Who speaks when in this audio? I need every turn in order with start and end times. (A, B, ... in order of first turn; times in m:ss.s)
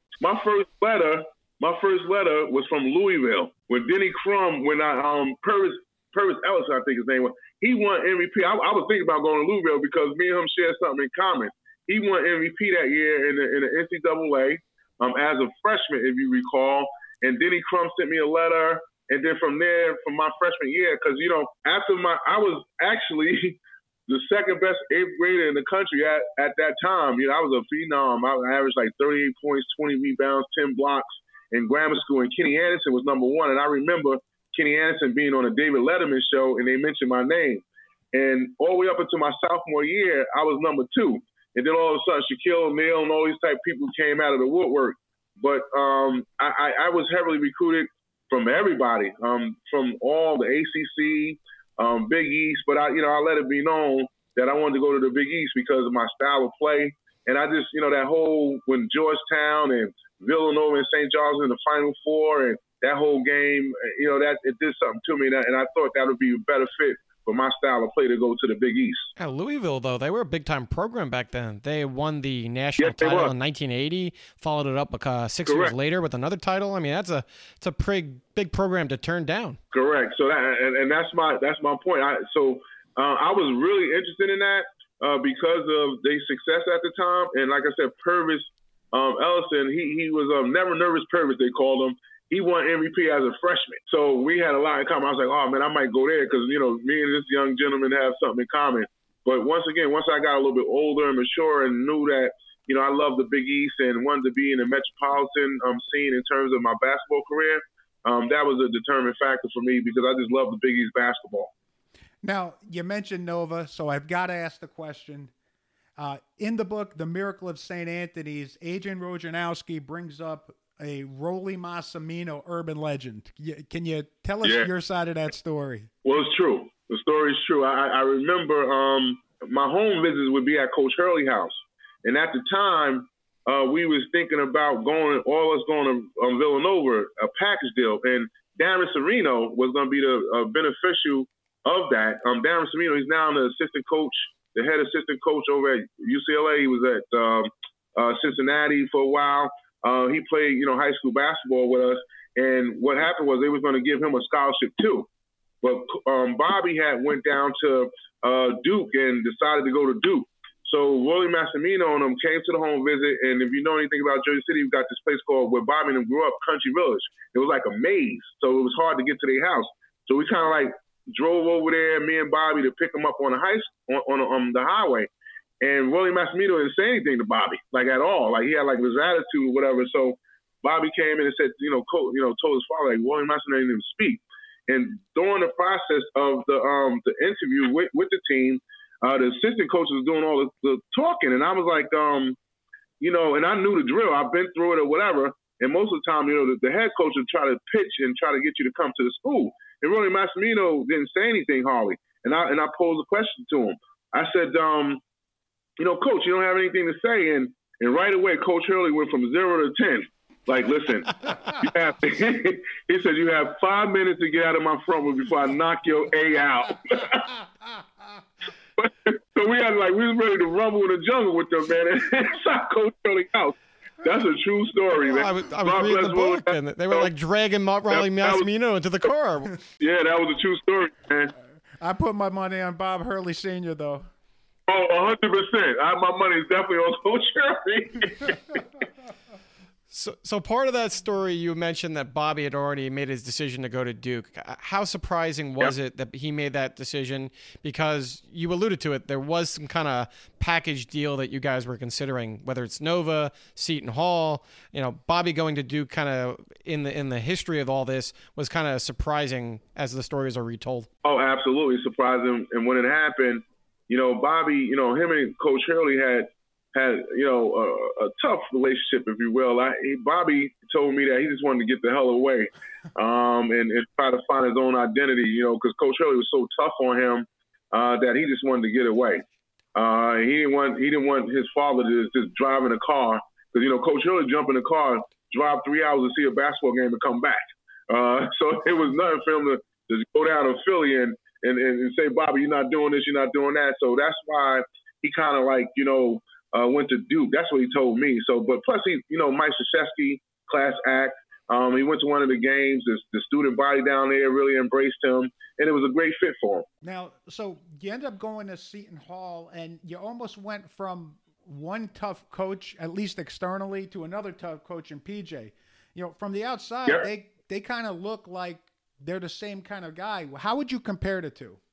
0:00.2-1:09.1 A
1:09.2-1:19.6 B
1:12.8-1:13.3 A
1:15.5-1:15.7 A
1:19.7-1:51.5 A
1:52.2-1:55.3 C
1:56.0-2:05.9 C
2:04.4-2:04.7 A
2:06.0-2:35.1 A
2:35.6-2:55.1 A
2:55.6-3:12.4 A
3:13.0-3:25.0 A
3:25.8-3:37.3 A
3:38.8-3:47.1 A
3:45.0-3:49.6 B
3:47.9-3:48.5 A
3:49.8-3:51.4 A
3:51.8-3:54.1 C
3:54.7-3:58.6 A
3:59.9-4:20.9 B
4:21.0-4:39.2 A
4:39.8-5:06.7 A
5:06.8-5:21.6 C